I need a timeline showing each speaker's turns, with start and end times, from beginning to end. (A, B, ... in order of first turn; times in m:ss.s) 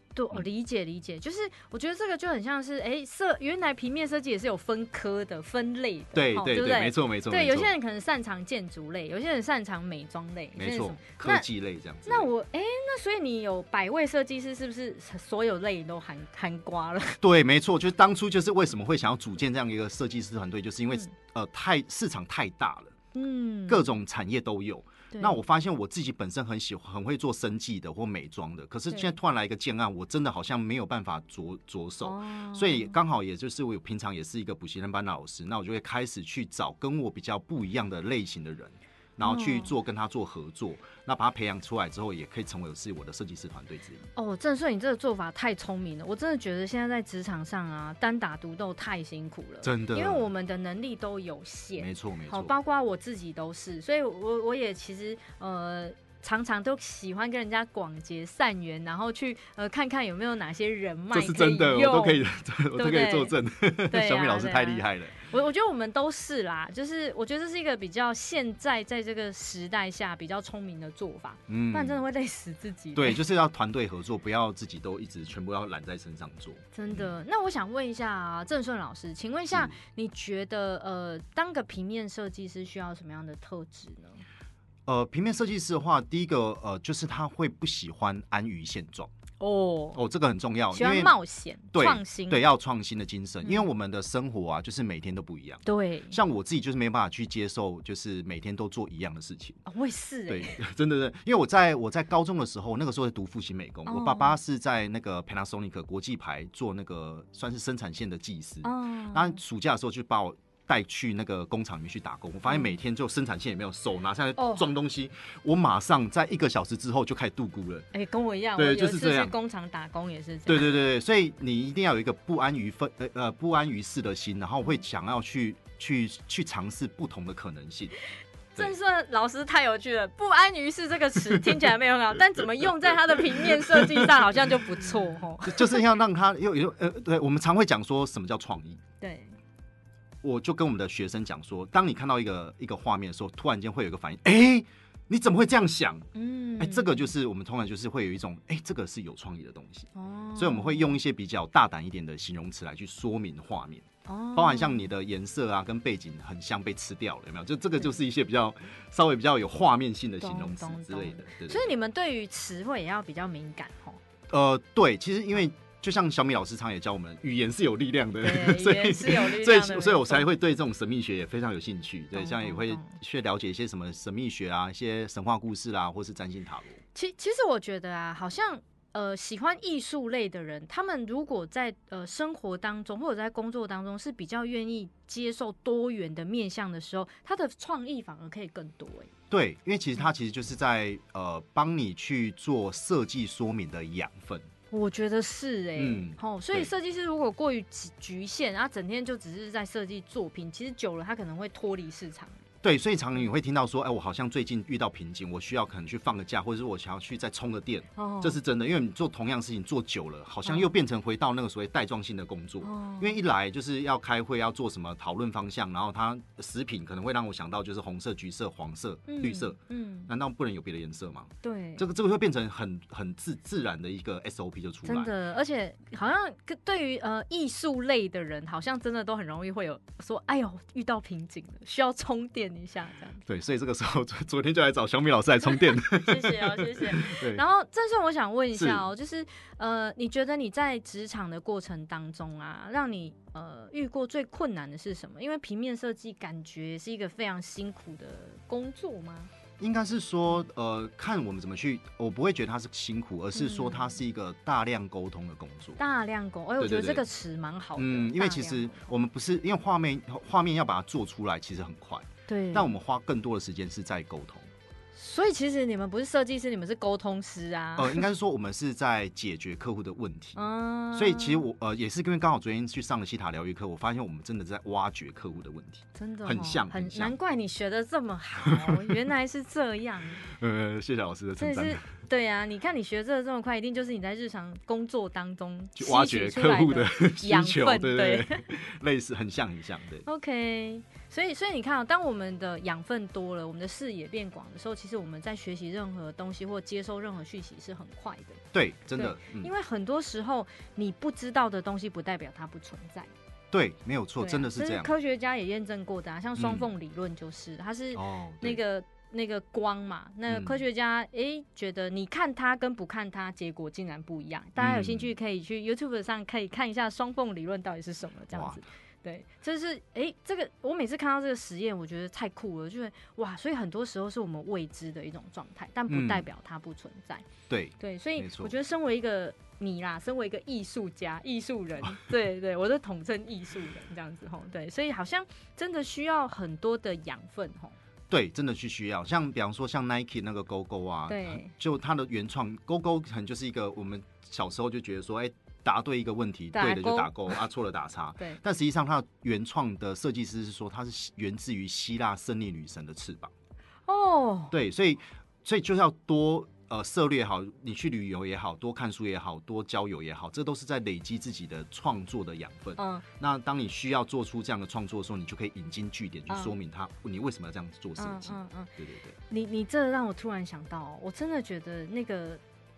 0:00.1-0:11.5 A
0:06.1-0:07.7 B
0:10.6-0:12.3 B
0:12.0-0:17.2 A
0:17.2-0:22.9 B
0:23.1-0:23.8 A
0:23.7-0:44.1 B
0:25.1-0:25.4 A
0:32.0-0:32.9 A
0:39.2-0:39.7 A
0:44.1-1:03.3 A
0:49.6-0:50.2 B
0:51.8-0:52.5 B
1:01.1-1:05.3 B
1:03.9-1:13.2 A
1:11.5-1:12.0 B
1:12.9-1:17.1 B
1:16.7-1:24.2 A
1:19.5-1:19.8 B
1:24.8-1:29.1 B
1:29.4-1:30.0 A
1:29.9-1:31.2 B
1:30.7-1:32.4 A
1:31.7-1:39.6 B
1:35.6-1:36.2 A
1:39.6-1:40.6 A
1:40.3-1:57.9 B
1:43.8-1:44.4 A
1:48.6-1:49.4 A
1:52.5-1:52.8 A
1:54.4-1:54.7 A
1:57.9-2:00.8 A
1:58.6-1:59.3 B
2:00.5-2:08.0 B
2:08.5-2:15.8 A
2:15.4-2:18.8 B
2:19.0-2:19.4 A
2:20.2-2:26.1 B
2:26.1-2:27.1 A
2:26.6-2:41.7 B
2:29.9-2:31.0 A
2:34.0-2:34.9 A
2:40.2-2:44.0 A
2:44.3-2:56.8 B
2:48.2-2:50.3 A
2:52.1-2:53.0 A
2:56.9-3:09.1 A
3:09.3-3:14.5 B
3:14.7-3:22.4 A
3:15.8-3:16.7 B
3:22.6-3:45.1 B
3:28.0-3:28.4 A
3:32.6-3:33.2 A
3:39.1-3:40.1 A
3:41.4-3:41.8 A
3:44.8-3:53.2 A
3:53.3-3:57.4 B
3:55.5-4:09.3 A
3:58.5-3:58.8 B
4:09.6-4:15.8 B
4:13.3-4:14.0 A
4:15.8-4:18.9 A
4:16.6-4:17.0 B
4:17.8-4:24.5 B
4:22.3-4:22.7 A
4:24.9-4:28.1 A
4:27.8-4:30.4 B
4:30.4-4:31.4 A
4:30.9-4:37.1 B
4:35.9-4:40.2 A
4:38.4-4:39.0 B
4:40.2-4:41.8 B
4:41.4-4:48.4 A
4:45.8-4:50.0 B
4:50.0-4:58.4 A
4:58.5-4:59.5 B
4:59.0-5:03.1 A
5:03.5-5:04.9 B
5:04.2-5:27.2 A
5:06.4-5:06.7 B
5:07.9-5:08.6 B
5:10.3-5:10.6 B
5:14.6-5:15.1 B
5:18.3-5:18.6 B
5:25.9-5:26.2 B
5:27.5-5:28.5 B
5:27.8-5:37.8 A
5:38.1-5:53.3 B
5:41.1-5:41.5 A
5:46.5-5:47.4 A
5:53.9-5:54.5 A
5:54.5-6:09.2 B
6:02.8-6:03.0 A
6:06.3-6:06.5 A
6:08.0-6:08.7 A
6:09.3-6:12.4 A